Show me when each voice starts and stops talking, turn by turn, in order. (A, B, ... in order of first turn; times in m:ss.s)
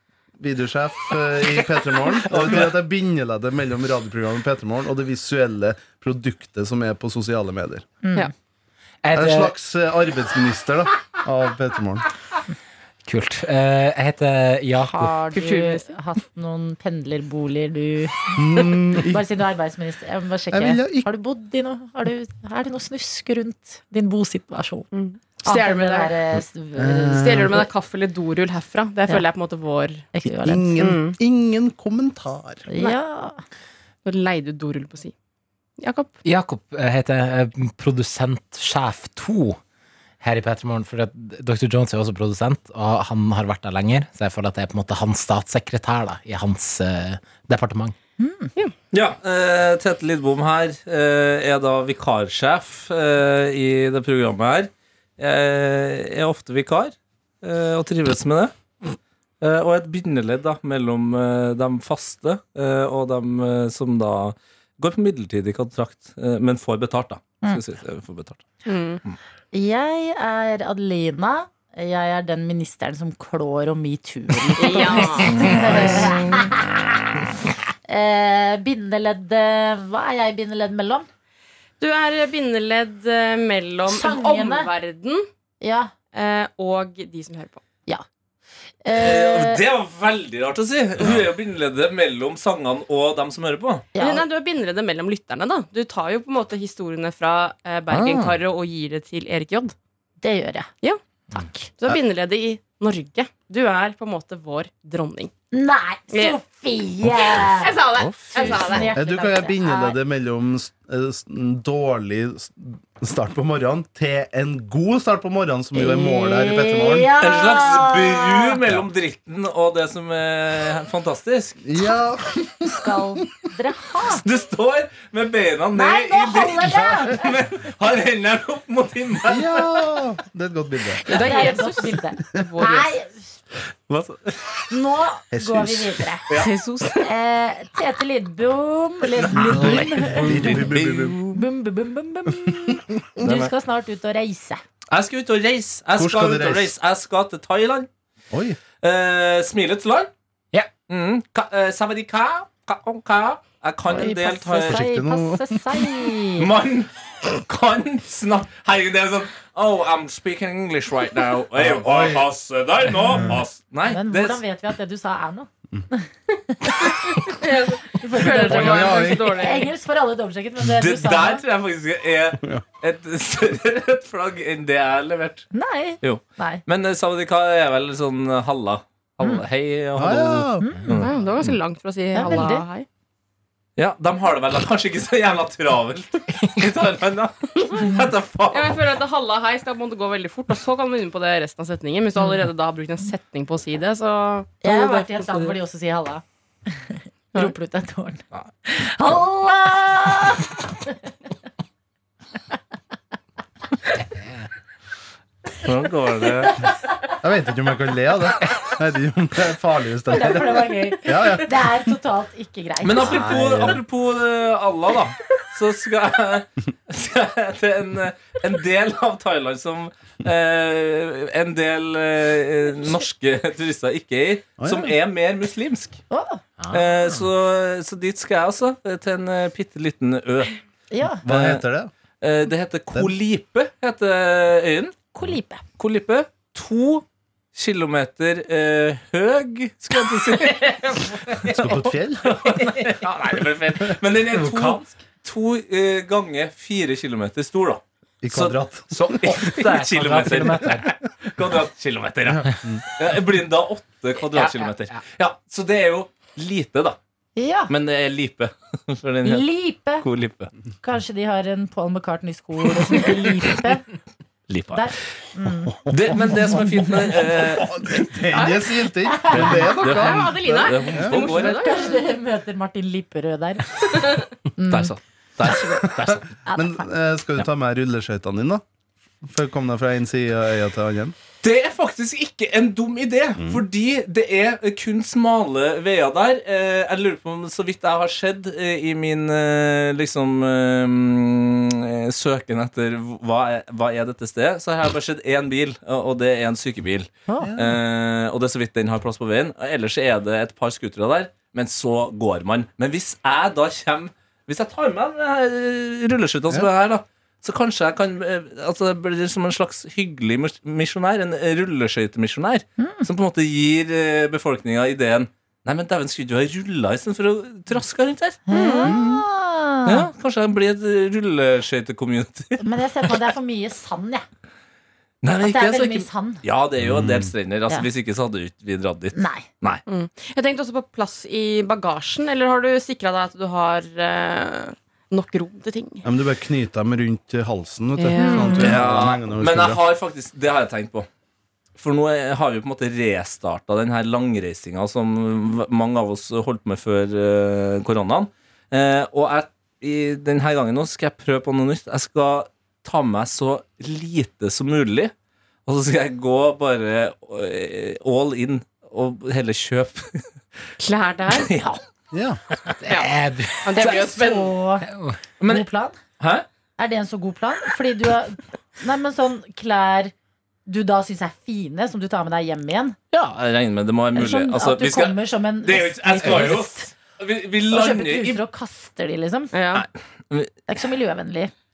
0:00.4-0:07.8 A
0:02.2-0:02.7 B
0:08.0-0:08.3 C
0:09.0-0:09.6 B
0:09.1-0:12.0 A
0:13.0-0:15.2 B
0:14.8-0:18.4 C
0:15.3-0:16.0 D
0:18.4-0:19.2 A
0:19.0-0:24.9 C
0:20.5-0:21.1 A
0:24.9-0:26.2 D
0:25.4-0:27.2 C
0:26.8-0:27.7 A
0:27.2-0:30.0 D
0:30.1-0:30.8 C
0:30.2-0:32.6 A
0:30.8-0:31.2 D
0:32.7-0:33.4 C
0:34.0-0:35.1 D
0:35.8-0:36.1 D
0:36.2-0:39.6 B
0:40.2-0:48.0 B
0:48.2-0:48.5 C
0:48.9-1:08.5 E
1:08.7-1:09.0 D
1:09.5-1:17.0 C
1:14.6-1:15.4 D
1:15.3-1:16.1 E
1:15.5-1:16.2 A
1:17.9-1:21.1 C
1:21.8-1:25.2 D
1:23.8-1:24.7 C
1:25.6-1:25.9 C
1:26.1-1:27.6 D
1:28.8-1:29.6 C
1:28.9-1:34.0 E
1:34.0-1:34.3 C
1:34.0-1:39.8 D
1:37.9-1:38.4 E
1:40.2-1:40.7 C
1:41.3-1:41.7 C
1:41.8-1:45.3 D
1:45.5-1:50.0 C
1:46.1-1:46.4 D
1:47.1-1:48.9 D
1:48.0-1:48.8 E
1:48.8-1:57.1 A
1:55.7-1:58.6 C
1:57.2-2:01.6 E
2:01.6-2:03.0 A
2:02.5-2:04.2 C
2:04.0-2:09.8 E
2:05.7-2:07.4 C
2:06.7-2:07.0 A
2:09.3-2:11.5 A
2:10.9-2:13.4 C
2:11.1-2:12.9 D
2:13.9-2:14.7 E
2:14.7-2:16.3 C
2:15.3-2:16.0 A
2:16.4-2:17.1 D
2:17.0-2:20.6 C
2:19.3-2:21.2 A
2:19.6-2:21.4 E
2:20.2-2:20.6 B
2:21.3-2:24.6 C
2:23.2-2:23.5 E
2:24.9-2:27.9 E
2:26.0-2:26.7 A
2:28.3-2:28.6 A
2:28.8-2:30.1 E
2:30.9-2:34.8 E
2:33.9-2:36.5 C
2:34.7-2:35.6 A
2:36.4-2:44.4 E
2:41.6-2:42.3 A
2:43.1-2:43.4 A
2:43.8-2:47.3 C
2:47.1-2:49.7 D
2:47.9-2:51.4 C
2:48.4-2:49.4 A
2:50.6-2:55.5 E
2:55.5-2:56.6 C
2:56.0-3:01.4 E
3:00.0-3:00.8 A
3:00.6-3:00.9 C
3:00.8-3:01.0 B
3:00.9-3:02.9 D
3:02.1-3:02.7 C
3:03.8-3:08.9 E
3:06.3-3:06.7 B
3:08.5-3:15.5 D
3:14.6-3:21.0 C
3:25.6-3:26.6 E
3:27.2-3:31.6 A
3:30.1-3:33.4 C
3:32.8-3:46.0 E
3:33.1-3:33.8 A
3:44.6-3:45.0 A
3:46.1-3:46.4 C
3:46.6-3:47.2 B
3:46.7-3:50.6 E
3:50.9-3:51.2 C
3:51.2-3:51.9 A
3:51.2-3:51.6 E
3:52.2-3:54.9 E
3:55.1-3:55.6 C
3:55.8-3:57.0 E
3:57.6-4:01.2 E
4:00.5-4:03.1 B
4:01.5-4:02.4 A
4:02.2-4:08.6 E
4:04.3-4:05.0 B
4:08.2-4:09.2 A
4:08.9-4:10.9 B
4:09.2-4:17.0 E
4:12.3-4:12.8 A
4:14.2-4:15.0 B
4:17.4-4:17.7 C
4:17.7-4:20.5 E
4:19.2-4:20.0 C
4:20.8-4:23.8 C
4:24.5-4:24.9 E
4:24.7-4:26.7 C
4:25.9-4:27.8 E
4:27.2-4:31.3 A
4:28.3-4:28.8 D
4:29.0-4:29.8 C
4:29.3-4:31.6 E
4:29.7-4:32.2 D
4:31.2-4:34.9 C
4:34.7-4:36.3 E
4:35.5-4:35.8 C
4:36.5-4:36.9 C
4:36.6-4:38.6 A
4:39.2-4:41.2 A
4:41.4-5:18.5 E
4:43.4-4:43.6 A
4:57.3-4:57.5 C
4:57.4-4:57.8 A
5:12.8-5:13.1 C
5:18.5-5:20.1 C
5:18.5-5:19.0 D
5:18.9-5:19.2 A
5:19.8-5:23.2 E
5:22.6-5:24.2 C
5:25.2-5:29.8 E
5:25.4-5:26.4 C
5:26.8-5:27.3 A
5:29.1-5:29.5 C
5:29.9-5:36.0 D
5:36.0-5:39.8 A
5:38.0-5:38.6 D
5:38.2-5:38.8 C
5:38.6-5:41.1 E
5:41.8-5:55.1 E
5:55.7-6:00.2 E
6:00.8-6:01.5 D
6:01.4-6:01.8 E
6:02.1-6:02.4 A
6:02.8-6:04.0 B
6:02.9-6:04.6 D
6:03.8-6:04.9 C
6:04.8-6:05.2 B
6:05.4-6:05.7 E
6:05.4-6:06.0 C
6:06.2-6:06.5 E
6:06.8-6:10.1 C
6:10.7-6:13.0 C
6:13.1-6:18.4 E
6:14.1-6:16.9 C
6:16.3-6:16.6 B
6:17.7-6:19.7 C
6:19.5-6:19.8 D
6:19.7-6:20.5 E
6:20.7-6:21.5 C